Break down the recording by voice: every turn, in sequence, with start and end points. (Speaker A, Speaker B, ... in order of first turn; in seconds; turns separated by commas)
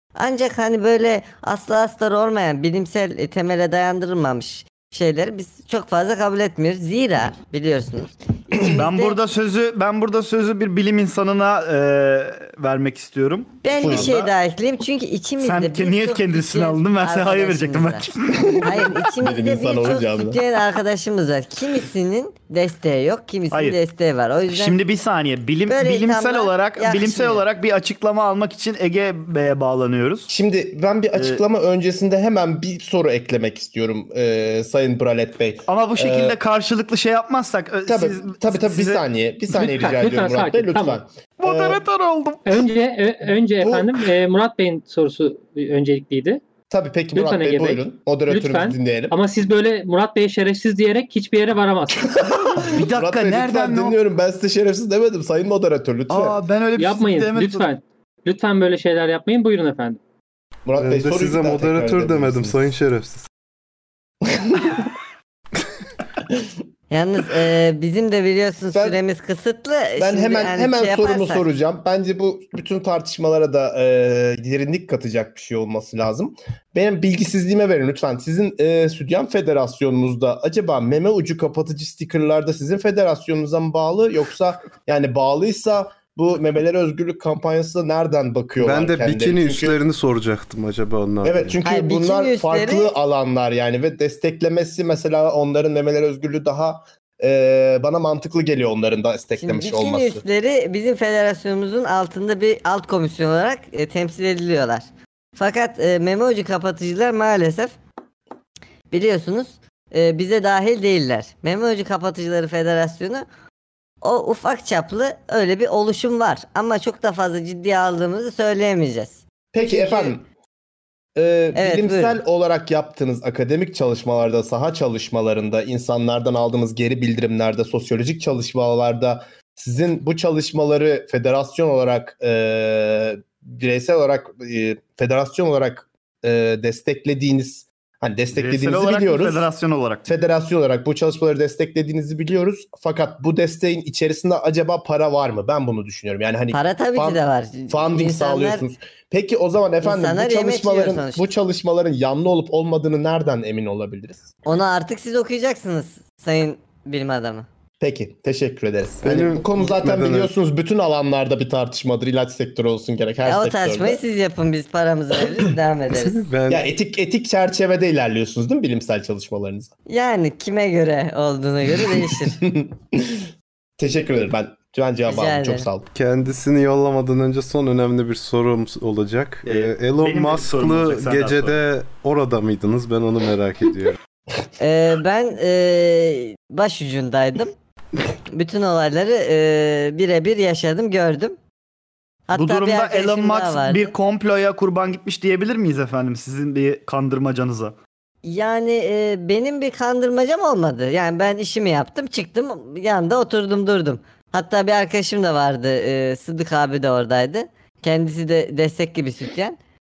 Speaker A: 0.1-9.2, Speaker B: 8.7-14.3, Speaker A: 13.6-24.8, Speaker C: 13.8-14.2, Speaker B: 15.4-18.9, Speaker C: 18.7-20.4, Speaker B: 23.5-23.8, Speaker B: 24.5-30.3, Speaker A: 25.7-27.4, Speaker C: 30.3-36.4, Speaker B: 31.1-31.4, Speaker B: 35.6-39.0, Speaker C: 37.9-41.8, Speaker D: 39.5-41.0, Speaker B: 41.4-42.6, Speaker D: 42.5-46.4, Speaker C: 46.7-49.1, Speaker D: 47.1-52.1, Speaker C: 52.1-56.4, Speaker B: 52.6-54.0, Speaker B: 56.1-57.7, Speaker D: 56.8-60.0, Speaker C: 60.6-62.7, Speaker E: 60.8-63.3, Speaker C: 64.3-64.8, Speaker A: 66.9-71.4, Speaker C: 68.7-69.0, Speaker C: 70.0-89.8, Speaker E: 88.6-91.6, Speaker C: 91.2-100.2, Speaker A: 91.6-92.9, Speaker A: 99.4-104.8, Speaker A: 105.4-107.8, Speaker A: 108.9-113.2, Speaker A: 114.0-120.1, Speaker C: 119.5-120.2, Speaker C: 121.2-139.5, Speaker A: 121.5-122.2, Speaker B: 138.3-140.1, Speaker C: 140.1-154.3, Speaker A: 146.5-148.6, Speaker A: 149.8-151.3, Speaker A: 154.4-157.5, Speaker C: 157.8-164.0, Speaker E: 159.0-160.3, Speaker A: 163.2-166.2, Speaker E: 165.9-166.7, Speaker C: 166.5-169.7, Speaker A: 169.8-172.4, Speaker C: 171.8-175.8, Speaker A: 175.1-175.7, Speaker E: 175.9-184.0, Speaker B: 179.4-181.6, Speaker A: 184.6-187.5, Speaker A: 188.3-191.3, Speaker A: 192.3-193.9, Speaker B: 192.3-197.8, Speaker A: 198.2-209.6